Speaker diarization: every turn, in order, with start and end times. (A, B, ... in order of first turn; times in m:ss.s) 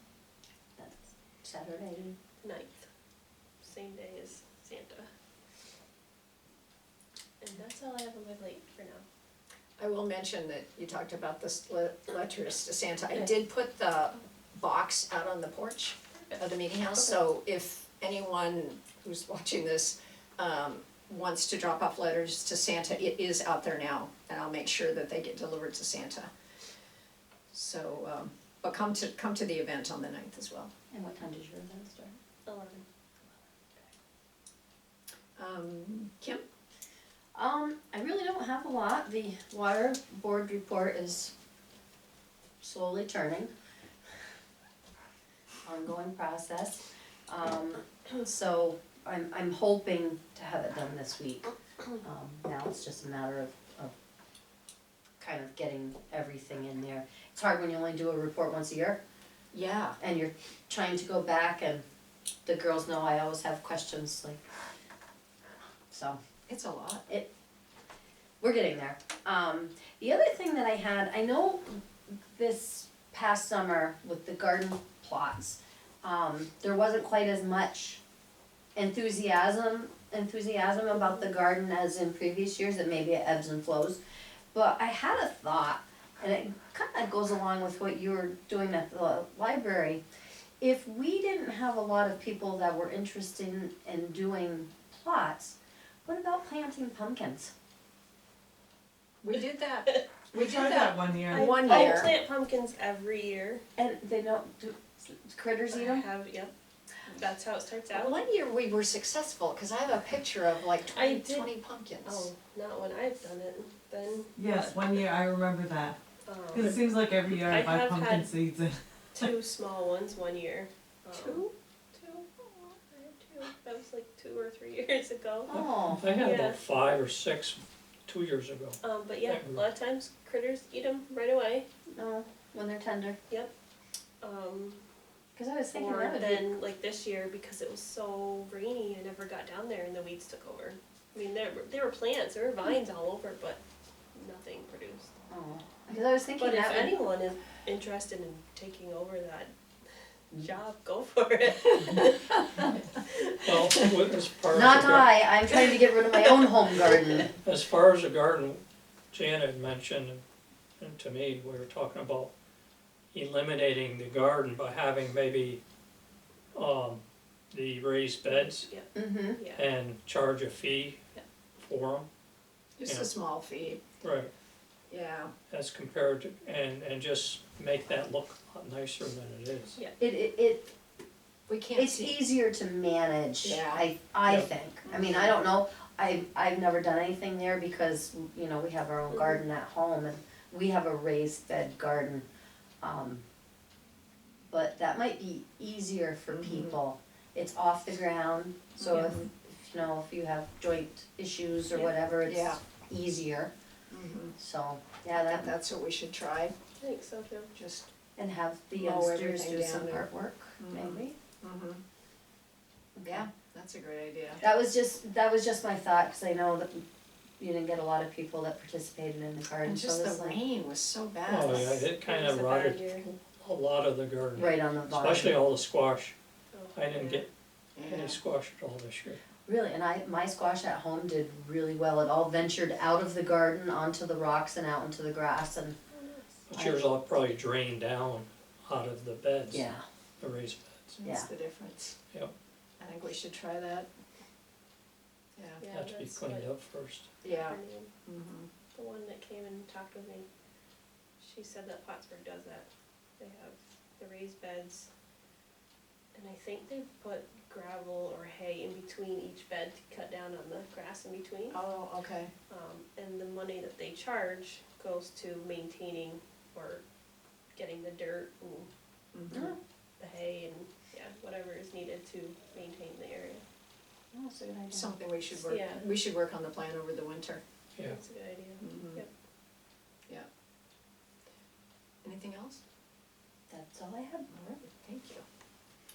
0:00.8-0:02.2 A
0:02.4-0:02.9 B
0:03.6-0:05.1 B
0:07.4-0:09.0 B
0:09.8-0:26.3 C
0:16.2-0:16.4 B
0:27.5-0:30.7 C
0:30.9-0:32.2 A
0:32.5-0:32.8 B
0:35.4-0:36.4 C
0:37.4-0:41.3 A
0:42.6-0:43.5 A
0:45.6-0:53.9 A
0:55.2-0:59.0 A
0:59.5-1:00.0 C
1:00.0-1:01.8 A
1:02.4-1:04.4 A
1:05.9-1:06.2 A
1:06.5-1:07.0 C
1:08.4-1:18.0 A
1:18.8-1:24.0 A
1:24.5-1:30.0 A
1:30.6-1:37.5 A
1:39.2-1:42.1 C
1:40.4-1:41.8 D
1:41.3-1:43.6 B
1:43.8-1:46.0 A
1:45.7-1:46.5 B
1:47.1-1:48.2 B
1:47.9-1:52.3 C
1:50.9-1:51.5 B
1:52.1-1:55.0 B
1:54.4-1:56.0 D
1:56.2-1:56.8 B
1:56.5-1:59.3 D
1:57.4-1:58.3 B
1:59.1-2:06.6 B
2:01.1-2:01.5 C
2:05.5-2:06.0 A
2:05.9-2:09.6 E
2:08.8-2:11.7 B
2:11.9-2:13.2 A
2:14.2-2:14.8 B
2:15.4-2:16.5 A
2:15.7-2:23.6 B
2:24.1-2:25.1 B
2:25.3-2:27.0 A
2:26.4-2:29.5 B
2:30.3-2:33.5 B
2:33.4-2:35.1 E
2:34.5-2:37.3 A
2:37.4-2:40.2 E
2:40.8-2:42.3 E
2:43.1-2:45.6 E
2:46.5-2:48.7 E
2:48.2-2:49.6 B
2:49.0-2:49.4 A
2:49.5-2:51.0 E
2:51.6-2:52.1 E
2:52.8-2:53.8 C
2:52.8-2:53.1 E
2:54.0-2:54.3 E
2:54.9-2:55.3 C
2:55.5-2:59.8 E
3:00.0-3:00.7 A
3:01.5-3:02.2 C
3:01.8-3:12.3 A
3:03.4-3:03.8 C
3:04.8-3:05.4 C
3:12.8-3:13.2 A
3:14.5-3:23.5 A
3:16.3-3:16.7 C
3:18.8-3:19.3 C
3:22.3-3:22.6 C
3:23.9-3:24.3 C
3:24.4-3:25.5 A
3:25.2-3:26.5 C
3:26.8-3:27.5 B
3:27.6-3:27.9 C
3:28.2-3:31.2 A
3:28.8-3:30.1 C
3:30.6-3:31.8 C
3:33.0-3:33.3 A
3:33.1-3:34.4 C
3:34.4-3:36.8 A
3:37.4-3:40.4 A
3:39.6-3:41.9 C
3:41.2-3:46.2 E
3:42.0-3:43.1 B
3:44.4-3:45.4 A
3:46.5-3:47.2 B
3:46.7-3:47.3 E
3:47.8-3:48.2 C
3:47.8-3:49.2 E
3:49.5-3:55.8 A
3:55.9-3:56.5 B
3:56.5-3:59.7 E
3:56.5-3:56.9 A
3:59.5-3:59.8 A
4:00.2-4:01.0 E
4:01.0-4:01.9 C
4:01.0-4:01.3 A
4:02.8-4:03.9 C
4:05.4-4:05.6 C
4:05.6-4:06.5 B
4:05.7-4:07.1 E
4:07.2-4:08.5 C
4:07.2-4:07.9 B
4:08.7-4:10.3 B
4:11.2-4:14.9 B
4:16.1-4:21.6 B
4:21.5-4:22.3 C
4:22.5-4:26.8 B
4:27.6-4:28.7 B
4:29.1-4:29.5 C
4:29.3-4:29.6 A
4:30.0-4:33.4 B
4:34.1-4:35.0 A
4:34.7-4:37.4 C
4:35.4-4:35.8 B
4:37.8-4:39.1 B
4:38.6-4:39.0 C
4:42.0-4:42.6 C
4:43.5-4:44.3 A
4:44.3-4:45.2 C